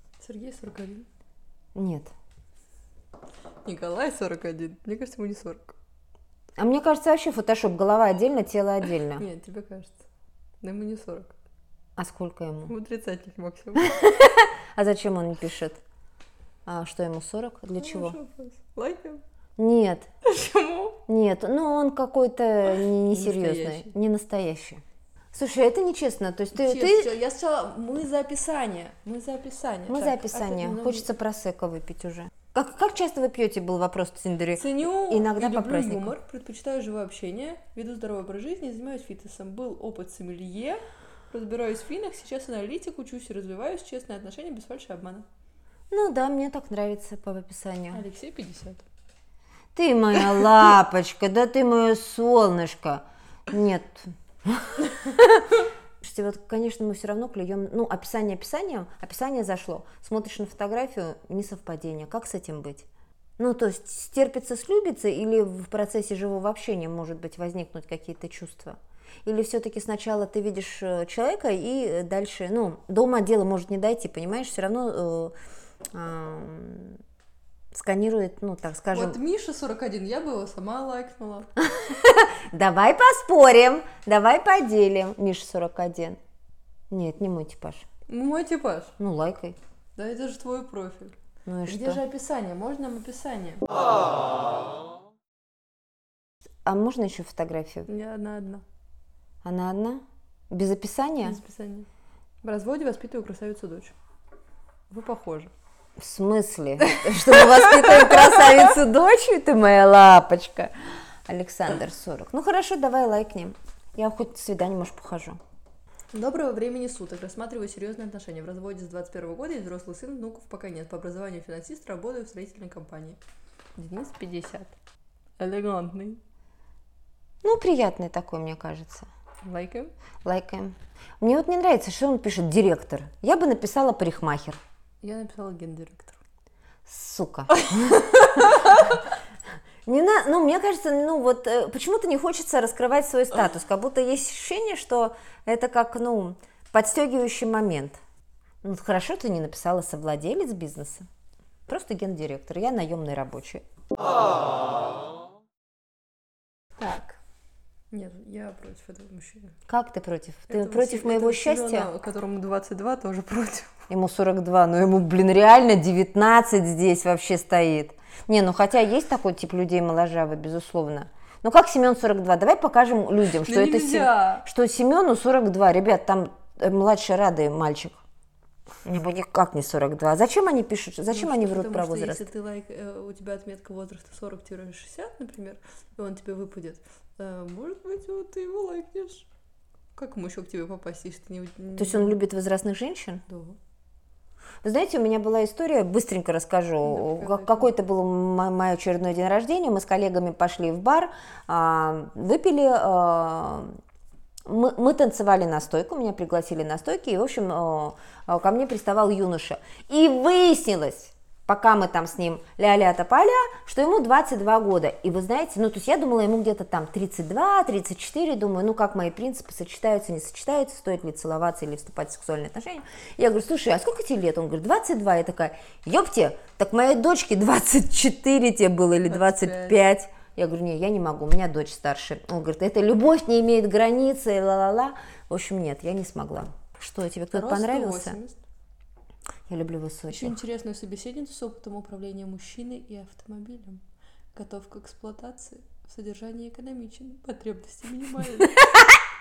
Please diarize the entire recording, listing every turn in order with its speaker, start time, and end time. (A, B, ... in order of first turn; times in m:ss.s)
0:00.2-0:01.1 A
0:01.7-0:02.1 B
0:03.6-0:05.8 A
0:06.6-0:09.2 B
0:09.0-0:10.1 A
0:10.6-0:11.4 A
0:12.0-0:12.7 B
0:12.7-0:14.1 A
0:13.8-0:15.8 B
0:16.6-0:18.2 B
0:17.8-0:19.2 A
0:19.6-0:20.1 B
0:20.2-0:21.0 A
0:21.1-0:24.8 B
0:23.1-0:23.9 A
0:25.3-0:27.1 B
0:26.5-0:31.1 A
0:29.9-0:36.1 B
0:34.6-0:45.2 A
0:45.9-0:48.0 B
0:47.9-0:48.8 A
0:49.7-1:02.9 B
1:03.4-1:15.4 B
1:15.9-1:17.0 B
1:17.7-1:19.2 B
1:18.9-1:21.5 A
1:21.6-1:26.2 B
1:26.9-1:27.9 B
1:28.1-1:28.9 A
1:29.0-1:29.6 B
1:30.0-1:31.1 A
1:31.4-1:32.0 B
1:31.6-1:33.7 A
1:36.6-1:37.9 B
1:37.9-1:38.6 A
1:39.4-1:41.4 B
1:41.2-1:41.9 A
1:42.4-1:43.9 A
1:44.9-1:45.5 A
1:46.0-1:55.4 B
1:56.1-2:03.2 A
2:03.8-2:04.8 A
2:05.4-2:06.2 A
2:07.4-2:09.1 B
2:09.4-2:09.9 A
2:10.2-2:14.6 B
2:15.0-2:16.2 A
2:16.8-2:18.9 B
2:19.8-2:28.0 B
2:28.6-2:31.1 B
2:31.7-2:33.6 B
2:36.8-2:37.2 A
2:37.9-2:39.6 A
2:39.7-2:41.9 B
2:40.5-2:43.7 A
2:43.9-2:58.0 B
2:53.4-2:54.4 A
2:58.8-3:02.2 B
3:01.1-3:09.3 A
3:10.0-3:12.2 A
3:11.8-3:13.2 B
3:13.3-3:13.6 A
3:14.6-3:23.8 B
3:16.8-3:17.7 A
3:24.4-3:58.2 B
3:49.1-3:49.8 A
3:57.3-3:58.4 A
3:59.5-4:00.4 B
4:00.1-4:03.8 A
4:04.3-4:08.8 A